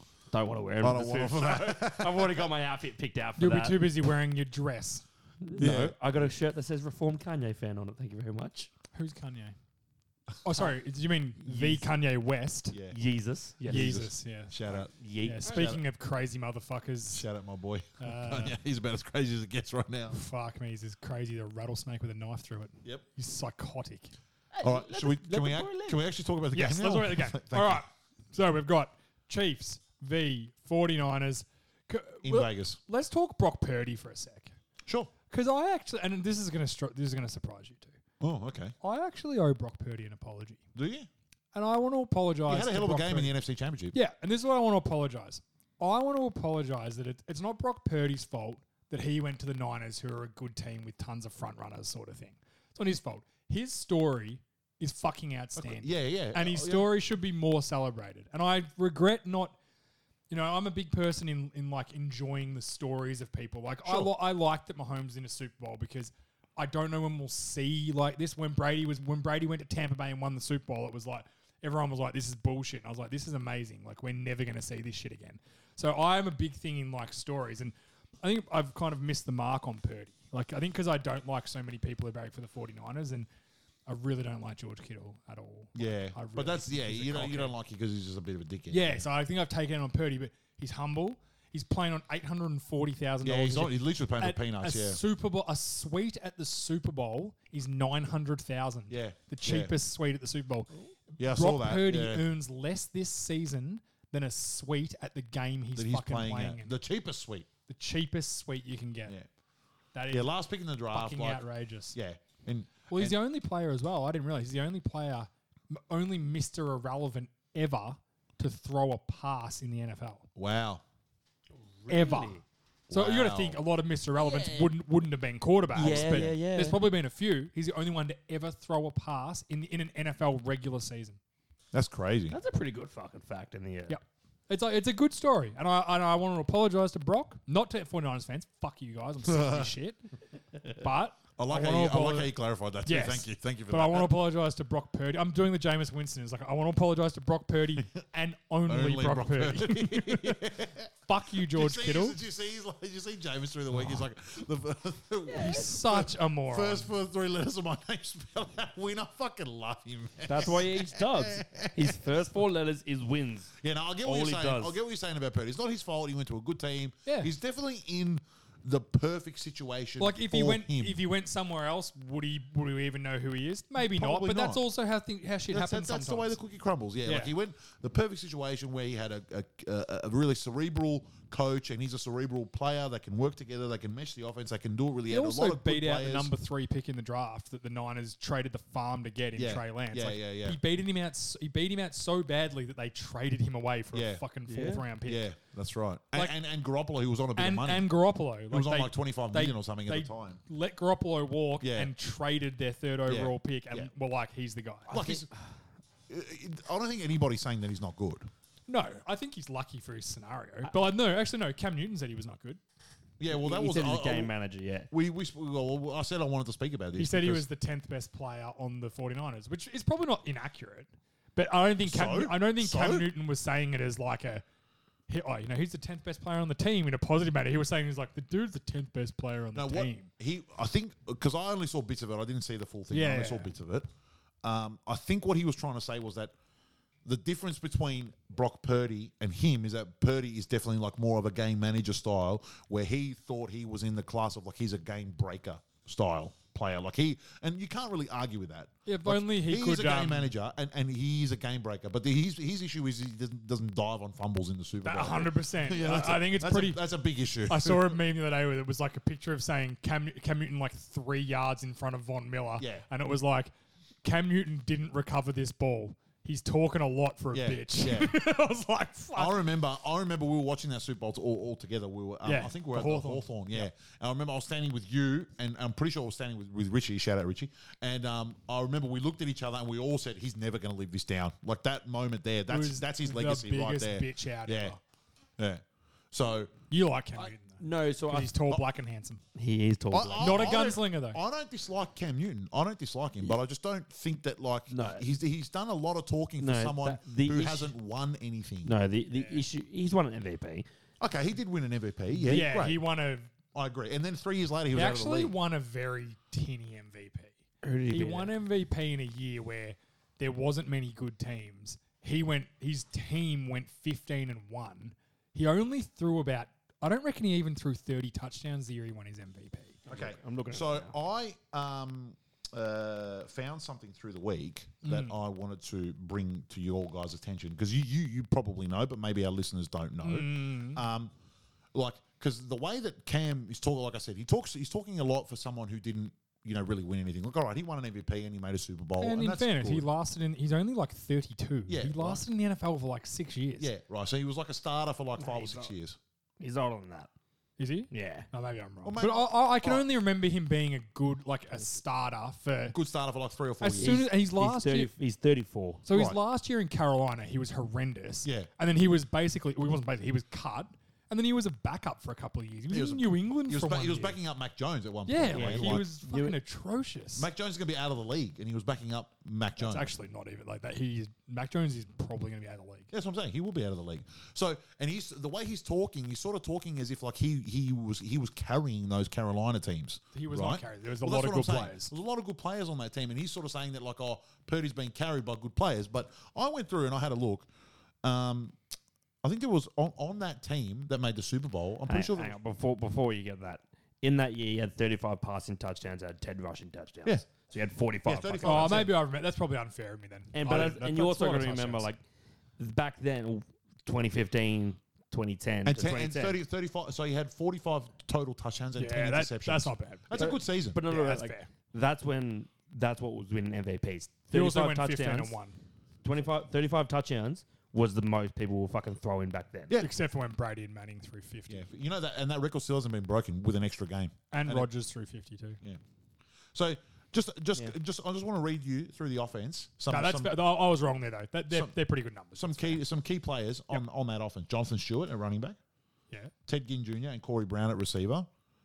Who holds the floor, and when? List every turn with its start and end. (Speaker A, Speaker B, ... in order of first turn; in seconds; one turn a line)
Speaker A: 0.3-3.9
Speaker B: 0.8-2.5
Speaker C: 3.4-5.0
Speaker A: 5.4-8.7
Speaker B: 5.6-6.0
Speaker C: 8.9-9.6
Speaker C: 10.4-12.8
Speaker A: 11.4-11.9
Speaker B: 12.7-13.0
Speaker A: 12.9-14.0
Speaker B: 13.6-15.8
Speaker C: 13.7-14.6
Speaker A: 14.9-15.7
Speaker C: 15.2-17.2
Speaker B: 17.1-20.2
Speaker C: 18.0-18.6
Speaker C: 20.1-24.1
Speaker A: 24.5-26.0
Speaker B: 24.6-27.8
Speaker C: 26.5-34.5
Speaker B: 32.2-32.8
Speaker B: 34.9-35.1
Speaker C: 35.3-38.0
Speaker B: 38.2-38.7
Speaker C: 38.8-40.6
Speaker B: 40.7-41.1
Speaker C: 41.5-43.3
Speaker B: 42.5-43.9
Speaker C: 43.9-59.6
Speaker B: 55.6-56.9
Speaker C: 60.3-83.3
Speaker B: 63.8-64.1
Speaker C: 83.9-87.5
Speaker B: 85.7-89.0
Speaker C: 88.7-106.7
Speaker B: 93.2-95.0
Speaker B: 98.9-99.7
Speaker B: 101.2-102.2
Speaker B: 105.7-107.5
Speaker C: 107.7-109.1
Speaker C: 109.9-110.3
Speaker B: 110.1-113.2
Speaker C: 110.9-112.0
Speaker C: 112.9-120.3
Speaker B: 120.3-120.8
Speaker A: 121.8-122.4
Speaker C: 121.9-131.2
Speaker B: 122.9-123.6
Speaker A: 124.1-124.7
Speaker A: 125.7-126.8
Speaker B: 125.8-126.3
Speaker B: 131.7-132.4
Speaker A: 132.3-134.0
Speaker C: 133.9-140.0
Speaker B: 139.2-139.7
Speaker C: 140.8-142.3
Speaker B: 141.4-144.2
Speaker C: 142.8-150.5
Speaker B: 148.7-162.2
Speaker C: 151.1-152.2
Speaker C: 155.3-156.9
Speaker A: 160.3-164.8
Speaker B: 163.6-171.0
Speaker C: 167.1-167.3
Speaker C: 170.0-176.3
Speaker B: 173.8-174.6
Speaker B: 175.5-186.3
Speaker C: 177.0-177.3
Speaker C: 185.1-195.3
Speaker B: 189.3-190.6
Speaker B: 193.9-194.2
Speaker A: 194.5-194.8
Speaker B: 195.0-197.9
Speaker C: 197.3-205.2
Speaker B: 198.5-200.4
Speaker B: 201.6-201.9
Speaker B: 203.1-203.9
Speaker B: 204.9-205.3
Speaker B: 206.1-208.3
Speaker C: 208.7-212.6
Speaker B: 213.2-214.3
Speaker A: 213.3-214.9
Speaker B: 214.9-217.4
Speaker C: 216.9-224.4
Speaker B: 221.8-223.1
Speaker C: 225.1-230.1
Speaker B: 229.5-233.9
Speaker C: 232.9-233.5
Speaker B: 234.4-236.3
Speaker B: 237.0-258.0
Speaker C: 248.8-250.3
Speaker C: 254.8-256.8
Speaker C: 257.4-263.5
Speaker B: 262.6-262.8
Speaker C: 264.0-269.4
Speaker B: 267.3-268.1
Speaker B: 269.1-284.7
Speaker C: 272.2-273.7
Speaker C: 282.5-284.8
Speaker B: 285.4-286.5
Speaker C: 286.7-289.2
Speaker A: 287.2-288.4
Speaker A: 289.3-290.6
Speaker B: 289.9-298.7
Speaker C: 290.2-291.2
Speaker A: 294.7-295.0
Speaker A: 296.4-297.7
Speaker A: 298.6-300.6
Speaker C: 299.1-299.4
Speaker B: 301.0-302.8
Speaker C: 302.2-303.3
Speaker B: 303.5-305.3
Speaker C: 304.7-307.3
Speaker A: 307.6-308.3
Speaker C: 307.9-319.8
Speaker A: 319.9-320.9
Speaker B: 319.9-331.1
Speaker C: 324.8-325.1
Speaker C: 330.0-330.8
Speaker B: 331.7-339.9
Speaker C: 339.0-343.7
Speaker B: 341.7-342.2
Speaker B: 343.6-346.0
Speaker C: 345.2-345.7
Speaker A: 346.4-347.1
Speaker C: 347.6-352.8
Speaker A: 347.9-348.3
Speaker B: 348.8-349.9
Speaker B: 352.7-354.0
Speaker C: 353.6-354.9
Speaker A: 353.8-355.8
Speaker C: 355.9-364.2
Speaker B: 355.9-356.2
Speaker B: 358.2-358.5
Speaker B: 362.7-365.8
Speaker C: 365.1-367.3
Speaker A: 365.3-366.4
Speaker B: 367.1-369.9
Speaker C: 369.6-372.9
Speaker B: 372.9-387.5
Speaker C: 380.1-381.9
Speaker B: 388.0-388.6
Speaker B: 389.2-392.3
Speaker A: 391.9-398.9
Speaker B: 398.1-398.9
Speaker C: 398.4-401.9
Speaker A: 400.3-402.0
Speaker A: 402.6-406.4
Speaker B: 405.6-410.8
Speaker C: 408.8-411.5
Speaker A: 410.1-415.4
Speaker C: 414.3-415.6
Speaker A: 416.0-419.7
Speaker C: 419.8-421.6
Speaker B: 421.5-424.7
Speaker C: 424.3-425.6
Speaker B: 426.5-430.4
Speaker C: 429.9-432.8
Speaker B: 432.4-435.6
Speaker B: 436.5-438.3